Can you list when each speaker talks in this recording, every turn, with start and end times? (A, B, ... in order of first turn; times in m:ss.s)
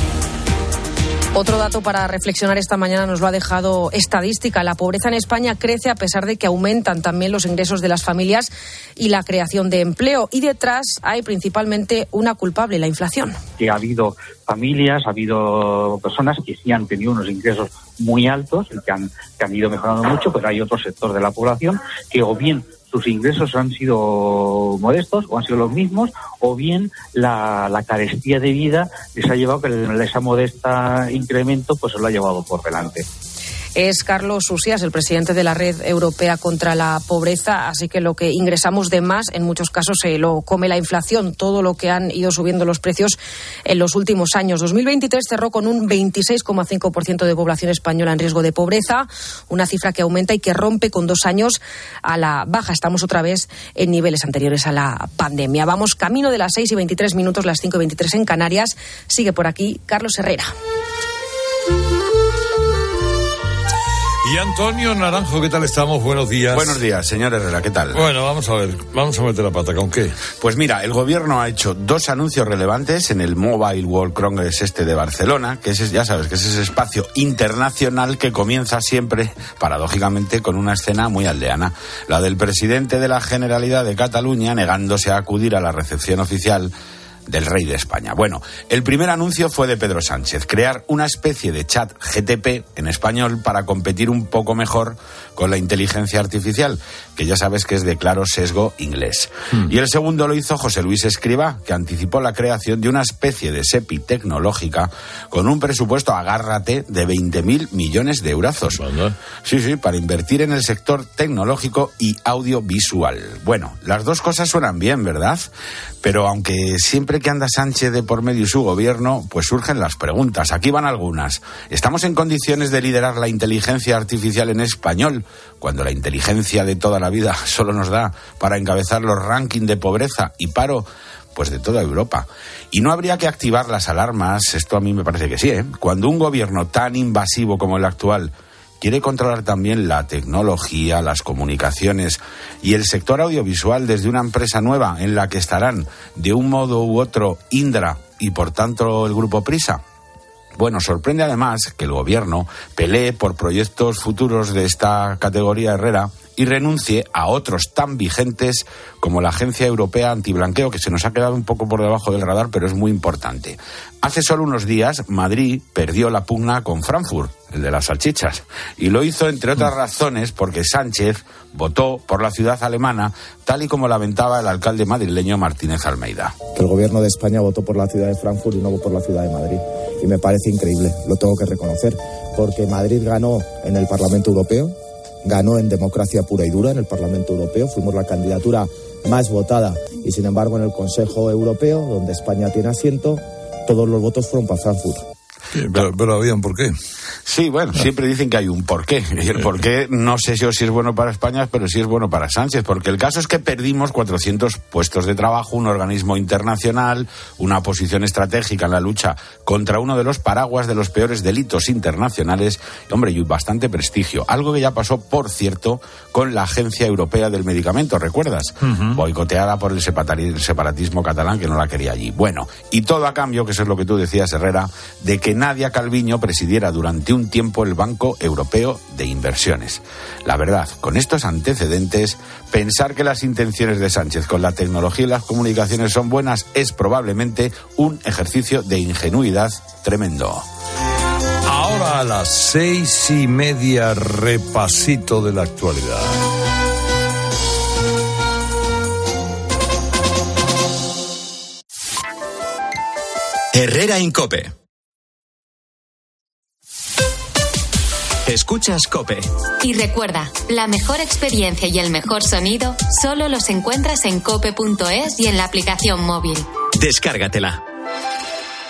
0:01.3-0:13.4 A
0:13.6-0:33.0 B
0:33.8-1:00.5 A
1:04.2-1:06.8 C
1:06.5-1:08.0 D
1:07.9-1:10.2 C
1:10.4-1:26.7 D
1:27.3-1:48.8 D
1:48.7-1:49.2 C
1:49.4-1:55.5 D
1:56.0-2:29.8 D
2:30.6-2:56.3 D
2:56.5-3:15.0 E
3:15.5-3:16.7 C
3:17.2-4:00.4 D
3:38.6-3:39.0 C
4:01.5-4:06.2 C
4:13.5-4:14.5 F
4:18.2-4:19.3 F
4:19.6-4:26.5 G
4:26.8-4:27.6 F